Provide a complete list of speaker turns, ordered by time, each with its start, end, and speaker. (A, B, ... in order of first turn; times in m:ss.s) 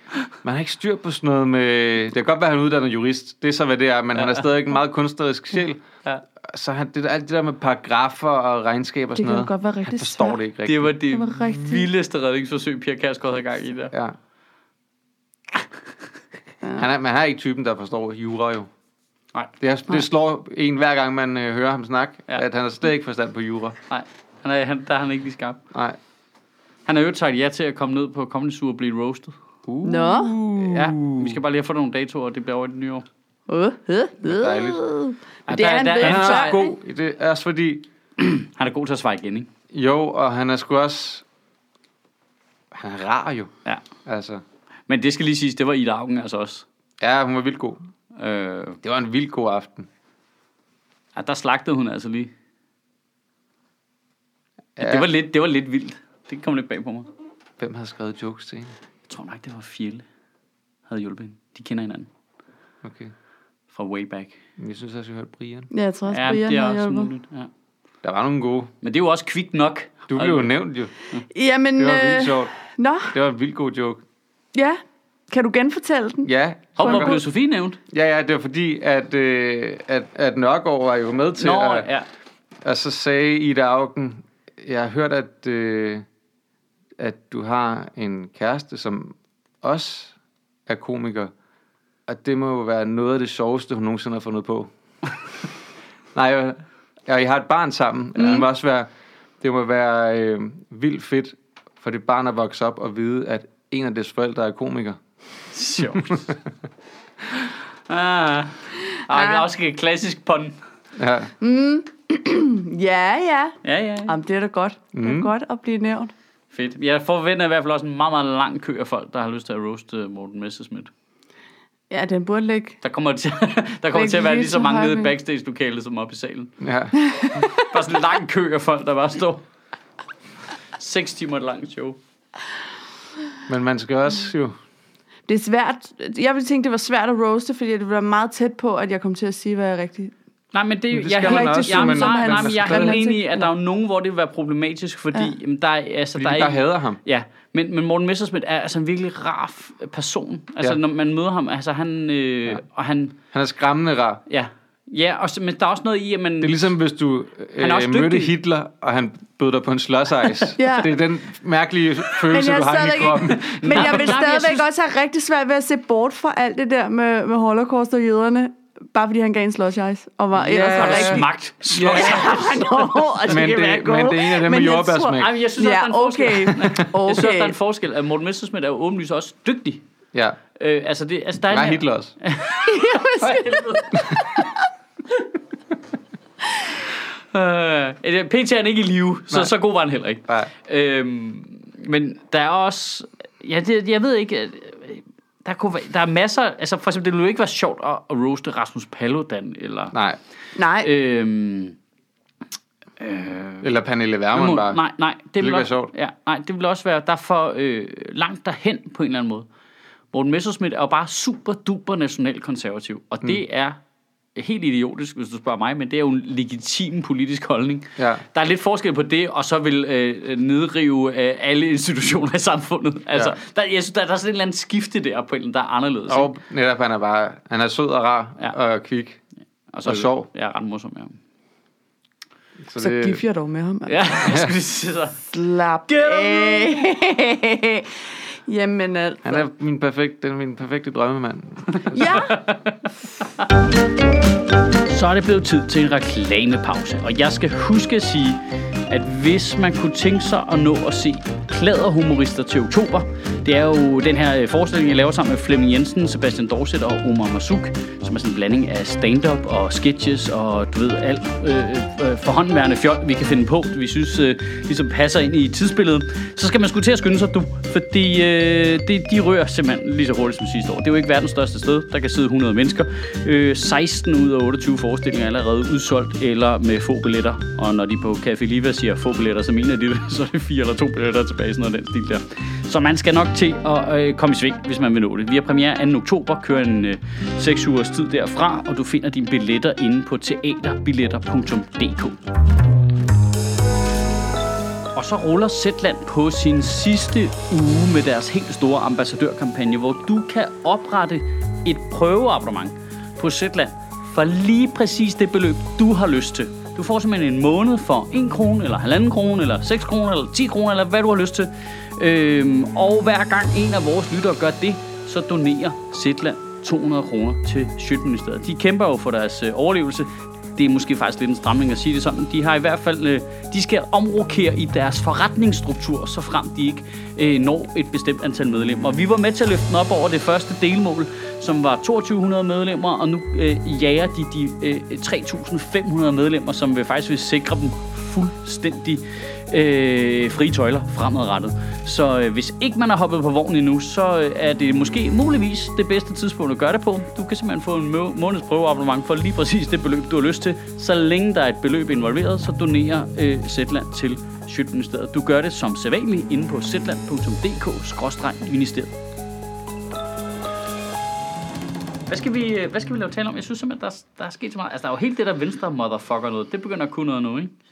0:00.4-0:05.8 A
0:04.1-0:04.5 B
0:06.4-0:10.9 A
0:09.2-0:10.4 C
0:10.6-0:13.9 B
0:11.1-0:11.9 C
0:16.8-0:18.7 A
0:19.6-0:23.8 A
0:23.9-0:25.6 B
0:26.8-0:29.4 B
0:29.7-0:31.4 A
0:29.8-0:30.4 C
0:30.6-0:33.0 B
0:33.5-0:36.7 C
0:34.2-0:34.8 A
0:35.5-0:36.6 B
0:36.0-0:37.8 A
0:38.2-0:39.5 B
0:39.7-0:41.2 A
0:42.7-0:43.5 A
0:44.0-0:44.4 A
0:44.9-0:46.6 B
0:47.0-0:47.8 A
0:48.2-0:48.8 B
0:48.8-0:49.9 A
0:51.2-0:52.3 B
0:54.8-0:55.1 A
0:54.8-0:57.1 B
0:57.6-0:58.7 A
0:59.1-1:00.0 B
1:00.9-1:02.1 B
1:02.8-1:03.1 A
1:03.7-1:04.4 B
1:04.6-1:05.7 A
1:05.7-1:07.1 C
1:06.1-1:07.5 B
1:08.0-1:08.7 A
1:08.8-1:10.5 B
1:10.1-1:10.9 A
1:11.3-1:13.1 C
1:11.8-1:12.5 A
1:13.1-1:14.0 A
1:14.5-1:17.2 C
1:16.2-1:17.2 A
1:16.8-1:17.8 B
1:17.9-1:21.9 A
1:21.4-1:22.1 B
1:22.6-1:26.0 A
1:27.0-1:30.2 A
1:30.7-1:31.3 A
1:32.1-1:34.7 A
1:36.1-1:38.9 A
1:38.2-1:38.4 C
1:39.4-1:45.0 A
1:45.5-1:46.2 B
1:45.8-1:46.4 A
1:47.3-1:50.6 B
1:49.1-1:49.4 C
1:51.0-1:51.3 A
1:51.4-1:56.1 C
1:53.6-1:54.1 B
1:54.9-1:55.3 A
1:56.5-2:00.9 B
2:01.9-2:02.8 C
2:02.8-2:06.5 B
2:03.9-2:05.1 C
2:06.6-2:06.9 A
2:07.0-2:07.6 C
2:07.6-2:09.4 B
2:10.7-2:12.0 B
2:13.5-2:14.5 A
2:15.3-2:20.1 C
2:20.5-2:33.2 B
2:20.9-2:23.0 A
2:21.2-2:23.5 C
2:26.2-2:27.0 A
2:33.3-2:34.2 A
2:34.3-2:36.6 B
2:36.4-2:44.2 A
2:37.6-2:38.3 B
2:40.6-2:40.9 C
2:42.3-2:51.2 C
2:43.3-2:44.6 B
2:50.4-2:53.2 B
2:50.4-2:52.3 A
2:51.9-2:57.6 C
2:53.2-2:55.3 A
2:55.2-2:59.8 B
3:00.6-3:04.2 B
3:01.5-3:02.1 A
3:02.6-3:04.5 C
3:07.3-3:19.9 B
3:19.9-3:20.2 A
3:20.6-3:20.9 C
3:20.8-3:21.8 B
3:23.0-3:23.7 B
3:23.6-3:24.8 A
3:24.3-3:29.4 B
3:25.4-3:25.9 A
3:30.1-3:33.8 B
3:34.4-3:46.3 B
3:38.0-3:38.2 A
3:46.1-3:49.2 A
3:49.7-3:51.2 B
3:49.8-3:50.3 A
3:52.6-3:53.2 A
3:52.8-3:54.2 C
3:53.9-3:55.3 B
3:54.2-3:54.5 A
3:55.3-3:59.5 C
3:55.9-3:56.7 B
3:59.2-4:02.0 A
4:01.7-4:02.8 B
4:01.9-4:02.4 C
4:04.9-4:52.3 B
4:54.9-5:58.9 B
6:02.1-6:07.5 B